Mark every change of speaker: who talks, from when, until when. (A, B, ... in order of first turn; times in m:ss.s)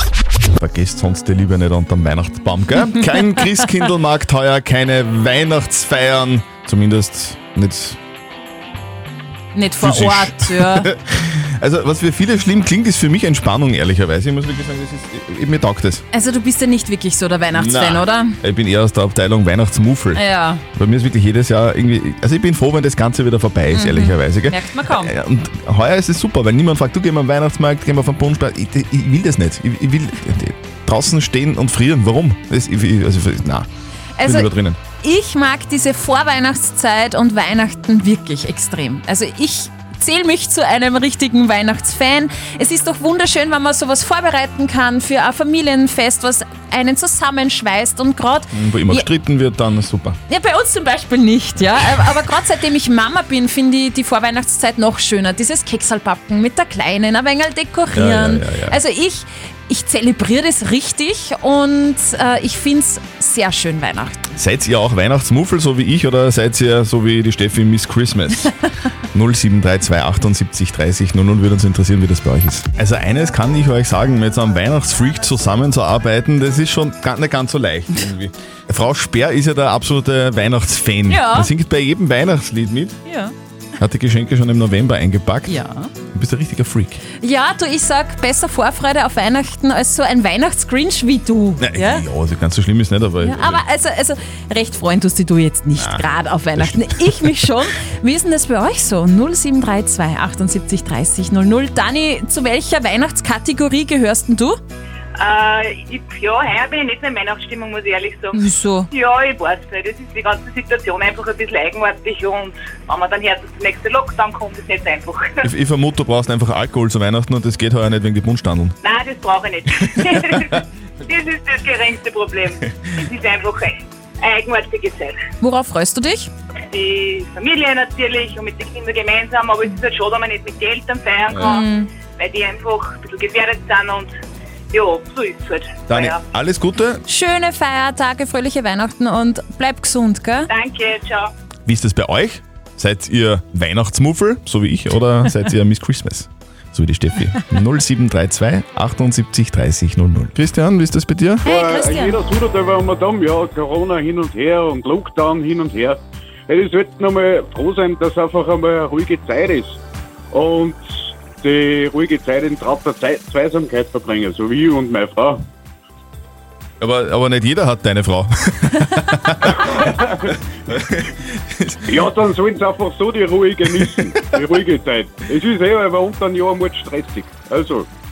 0:00.6-0:08.0 A
0:09.5-0:10.9 B
0:09.8-0:16.0 A
0:16.1-0:18.4 B
0:17.5-0:33.7 A
0:20.1-0:20.6 B
0:23.7-0:25.1 B
0:34.2-0:49.1 B
0:34.2-0:34.8 A
0:48.5-0:50.2 A
0:50.3-1:04.3 B
0:57.9-0:58.8 A
1:04.3-1:08.5 A
1:09.1-1:23.0 A
1:21.1-1:21.5 B
1:23.0-1:23.3 B
1:23.8-1:25.6 A
1:25.5-1:25.9 B
1:26.1-1:27.0 A
1:27.2-1:32.0 B
1:31.6-1:33.6 A
1:33.2-1:44.6 B
1:35.8-1:37.5 A
1:45.2-1:55.4 C
1:48.3-1:48.9 B
1:55.4-1:58.8 A
1:58.8-2:05.2 C
2:00.3-2:00.6 A
2:05.4-2:06.3 B
2:06.7-2:14.1 C
2:11.3-2:11.6 A
2:11.3-2:11.9 B
2:14.7-2:16.2 C
2:15.9-2:17.0 A
2:17.1-2:20.5 B
2:20.5-2:21.3 C
2:21.6-2:31.4 A
2:31.4-2:39.8 D
2:31.4-2:32.2 B
2:40.3-2:40.8 D
2:41.4-2:45.4 D
2:46.8-2:49.7 A
2:49.6-2:50.4 D
2:50.7-2:52.0 A
2:51.9-2:57.8 D
2:53.8-2:54.4 A